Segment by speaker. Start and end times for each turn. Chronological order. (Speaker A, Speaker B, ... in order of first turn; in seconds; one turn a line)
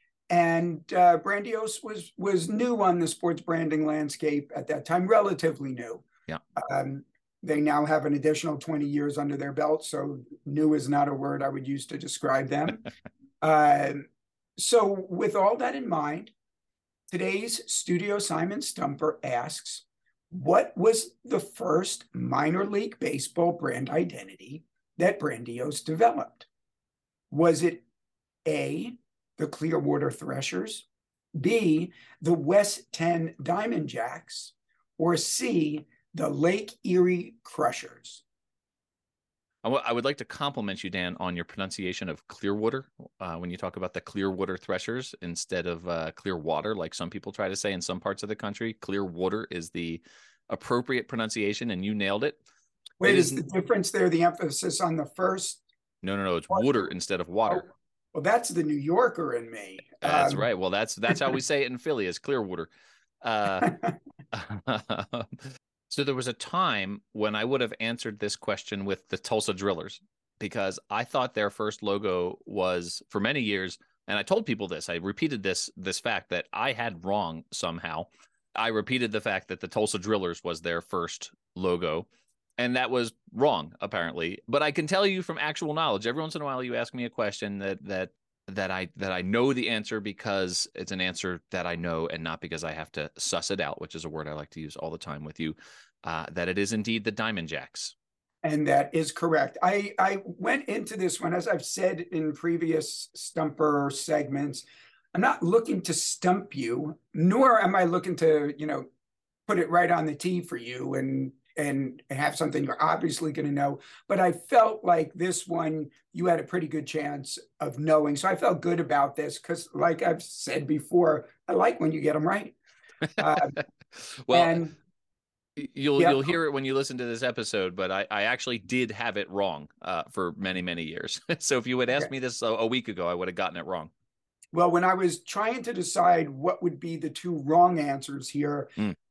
Speaker A: 0.3-6.0
Speaker A: 6.6-12.9
Speaker A: 13.4-16.3
Speaker A: 17.1-26.4
Speaker A: 27.3-27.8
Speaker A: 28.4-38.2
Speaker B: 39.6-52.4
Speaker A: 53.0-55.6
Speaker B: 53.0-53.4
Speaker B: 56.0-57.7
Speaker A: 57.5-60.5
Speaker B: 60.0-62.7
Speaker A: 61.1-61.4
Speaker B: 63.2-63.7
Speaker A: 63.6-63.9
Speaker B: 64.3-97.9
Speaker A: 98.4-108.9
Speaker A: 109.5-122.5
Speaker B: 123.2-123.4
Speaker A: 123.2-123.6
Speaker B: 124.0-124.6
Speaker A: 124.3-124.7
Speaker B: 125.6-133.9
Speaker A: 126.0-126.3
Speaker A: 134.5-138.9